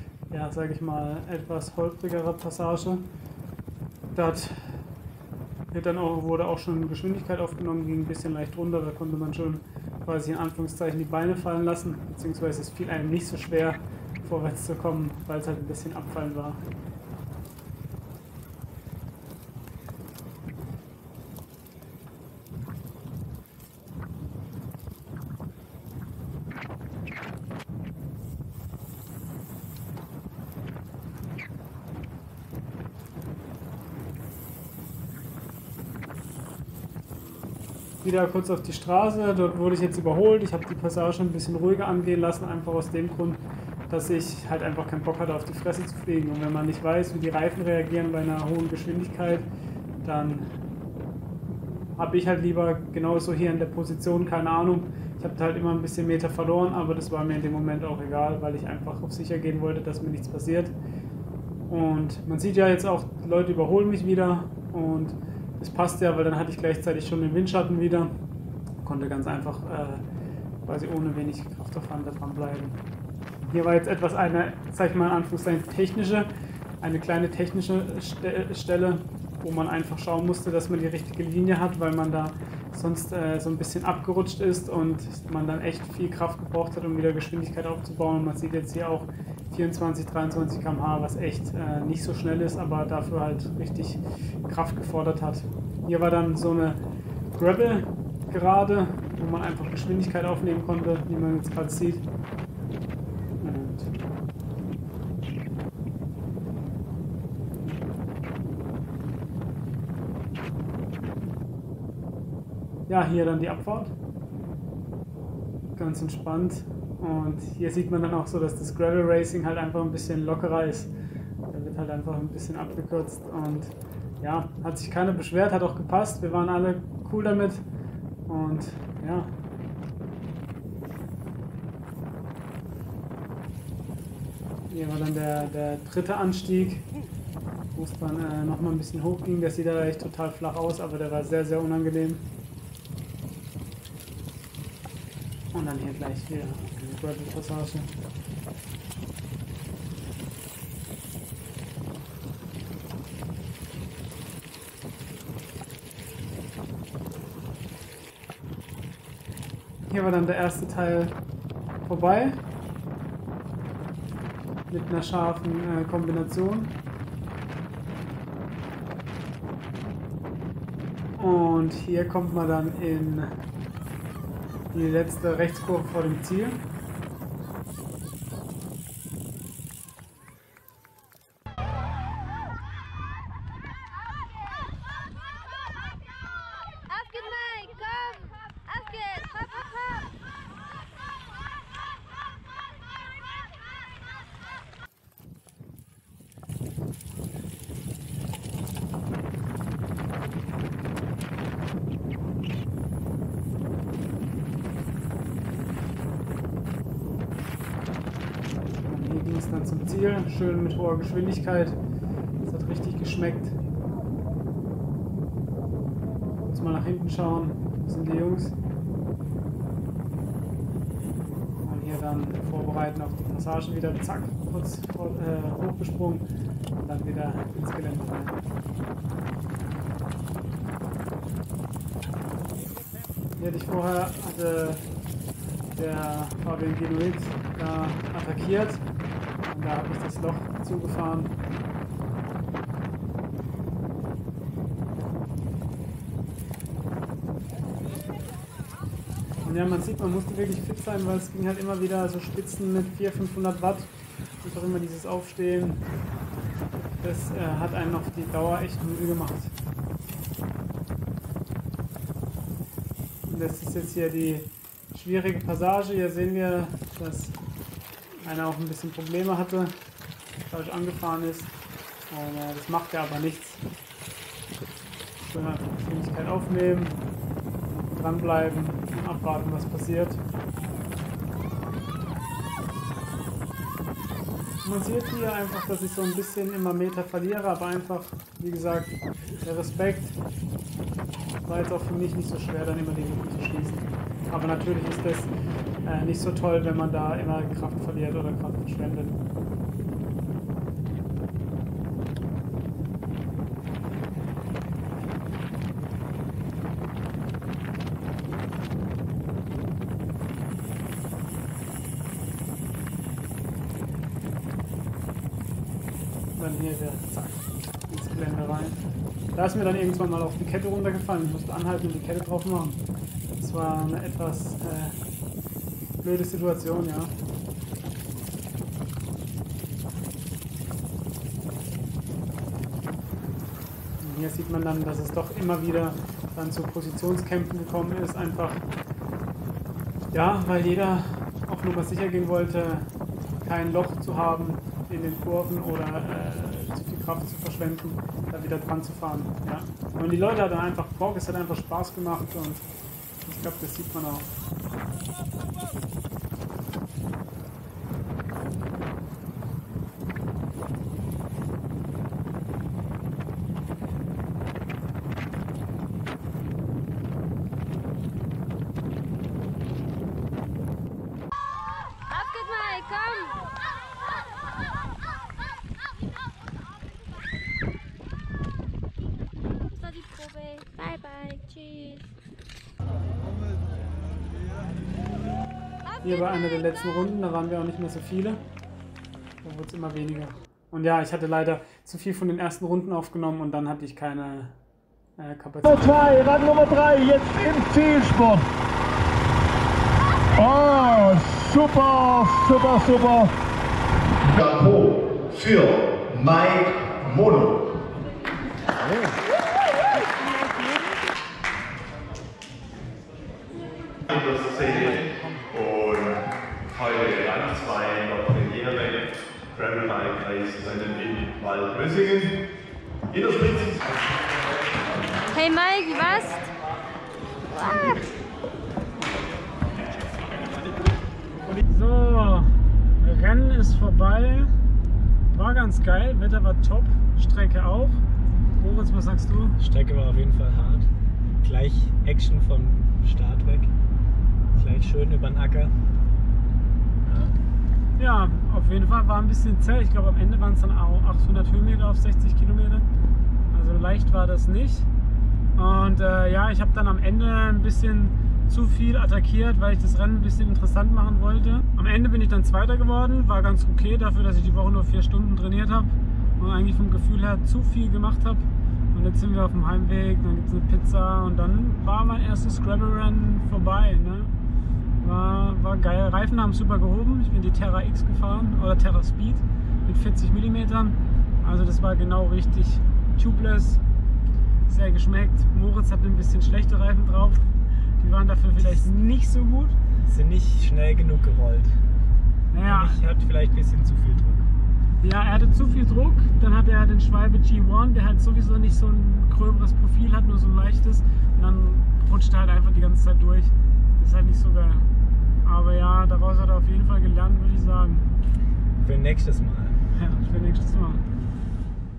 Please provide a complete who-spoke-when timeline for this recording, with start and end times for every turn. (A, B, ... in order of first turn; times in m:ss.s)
0:00.3-0:03.1 A
0:04.1-0:04.7 A
0:05.7-0:16.6 A
0:38.0-0:49.5 A
0:50.0-0:50.5 A
0:51.5-1:00.7 A
1:01.7-1:08.1 A
1:08.8-1:10.0 A
1:10.6-1:12.8 A
1:13.4-1:16.3 A
1:16.8-1:36.8 A
1:37.3-1:42.0 A
1:43.4-1:43.9 A
1:52.9-1:53.9 A
1:55.8-2:00.9 A
2:01.5-2:07.6 A
2:08.3-2:09.3 A
2:14.7-2:16.8 A
2:17.7-2:22.2 A
2:25.5-2:27.9 A
2:39.9-2:41.1 A
2:41.8-2:42.4 A
2:44.7-2:46.8 A
2:51.2-2:53.3 A
2:54.7-2:56.6 A
3:06.9-3:09.8 B
3:28.7-3:31.8 A
3:32.4-3:33.6 A
3:36.5-3:38.5 A
3:41.6-3:46.2 A
3:46.8-3:48.4 A
3:53.4-3:54.8 A
3:55.8-3:58.8 A
3:59.5-4:01.3 A
4:09.4-4:15.8 A
4:17.0-4:19.5 A
4:23.3-4:27.4 A
4:28.2-4:29.7 A
4:30.5-4:31.5 A
4:32.1-4:33.6 A
4:35.2-4:37.0 A
4:37.9-4:40.2 A
4:44.6-4:50.2 A
4:51.4-4:55.3 A
4:55.8-4:59.2 A
5:16.4-5:18.8 A
5:19.3-5:22.8 A
5:23.4-5:24.9 A
5:26.0-5:27.1 A
5:34.0-5:38.6 A
5:40.1-5:42.9 A
5:43.4-5:52.6 A
5:53.2-5:54.3 A
6:12.1-6:13.4 B
6:19.7-6:22.0 B
6:26.0-6:28.4 A
6:29.4-6:34.6 A
6:35.2-6:36.1 A
6:35.8-6:38.5 C
6:40.4-6:43.3 C
6:44.2-6:47.6 D
6:50.2-6:51.1 B
6:54.1-6:56.2 D
6:56.7-7:02.4 D
7:03.1-7:03.9 D
7:05.3-7:06.5 B
7:07.5-7:08.1 B
7:11.6-7:14.5 A
7:15.3-7:18.0 A
7:18.5-7:19.6 A
7:19.6-7:20.9 E
7:21.4-7:23.7 E
7:24.5-7:25.7 E
7:27.0-7:27.4 E
7:28.0-7:32.8 A
7:33.5-7:34.9 A
7:35.5-7:54.3 A
7:55.0-8:03.8 A
8:04.7-8:07.4 A
8:08.0-8:09.8 A
8:08.6-8:08.9 E
8:10.0-8:11.8 E
8:12.5-8:13.0 A
8:12.6-8:14.5 E
8:15.0-8:24.9 A
8:25.4-8:28.0 A
8:28.8-8:29.8 E
8:29.9-8:31.0 A